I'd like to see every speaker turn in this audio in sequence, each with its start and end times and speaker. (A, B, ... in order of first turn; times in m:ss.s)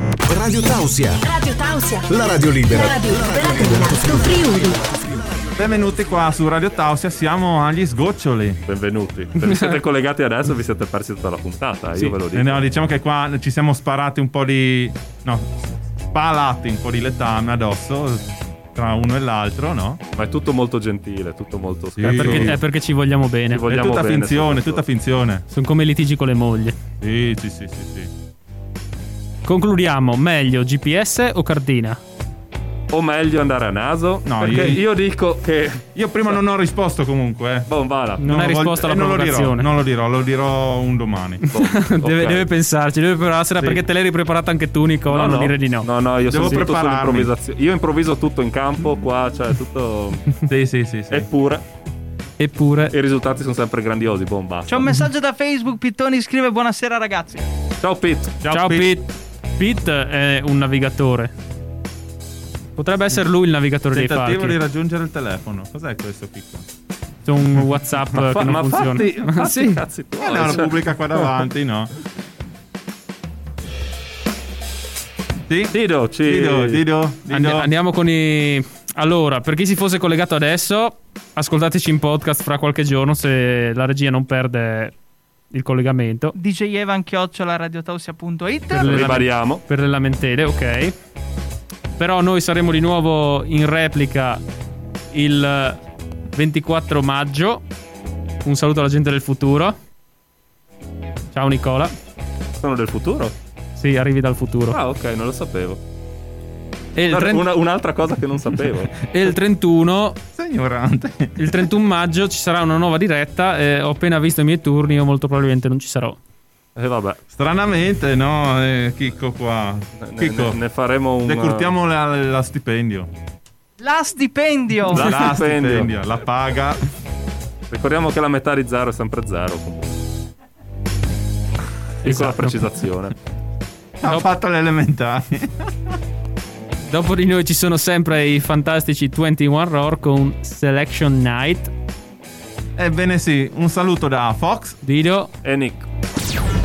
0:00.2-0:01.2 A
0:01.2-0:04.8 B
0:02.1-0:05.5 A
0:05.6-0:08.6 C
0:08.6-0:12.6 D
0:12.0-0:20.0 C
0:20.1-0:22.6 D
0:22.0-0:22.6 C
0:22.0-0:23.6 E
0:23.5-0:24.8 D
0:23.7-0:25.4 C
0:25.5-0:26.8 E
0:27.0-0:28.1 C
0:29.4-0:32.0 E
0:32.9-0:36.4 D
0:34.2-0:34.8 C
0:35.9-0:41.4 C
0:37.7-0:38.3 D
0:38.2-0:39.7 E
0:41.4-0:45.9 E
0:41.5-0:42.5 D
0:45.1-0:50.4 D
0:46.2-0:47.3 C
0:50.5-0:51.3 C
0:51.1-0:51.6 D
0:52.4-0:52.9 E
0:52.9-0:54.9 D
0:54.7-0:57.4 F
0:57.8-0:58.4 D
0:58.4-0:58.9 C
0:58.5-1:01.3 E
1:02.8-1:04.6 E
1:03.9-1:06.7 C
1:07.2-1:09.8 E
1:08.1-1:11.3 D
1:10.2-1:11.9 C
1:15.5-1:17.7 C
1:15.7-1:16.8 D
1:17.3-1:24.9 E
1:25.5-1:26.3 E
1:26.3-1:29.2 F
1:28.8-1:31.0 E
1:28.8-1:29.6 D
1:32.0-1:34.4 E
1:35.1-1:35.8 E
1:36.3-1:37.6 E
1:38.4-1:39.8 E
1:41.3-1:41.9 E
1:42.6-1:43.3 D
1:43.8-1:44.8 E
1:44.7-1:45.8 D
1:46.9-1:47.4 E
1:47.1-1:48.9 D
1:49.0-1:50.2 E
1:50.3-1:51.6 C
1:51.4-1:56.2 E
1:56.8-1:57.2 D
1:57.3-2:00.6 C
2:00.0-2:01.7 D
2:01.2-2:03.1 C
2:03.8-2:05.0 F
2:04.9-2:05.9 D
2:04.9-2:06.9 C
2:07.7-2:10.0 D
2:12.0-2:12.6 E
2:12.0-2:13.2 D
2:14.0-2:16.0 C
2:16.9-2:21.7 E
2:22.8-2:24.8 C
2:24.8-2:25.3 E
2:25.4-2:25.8 D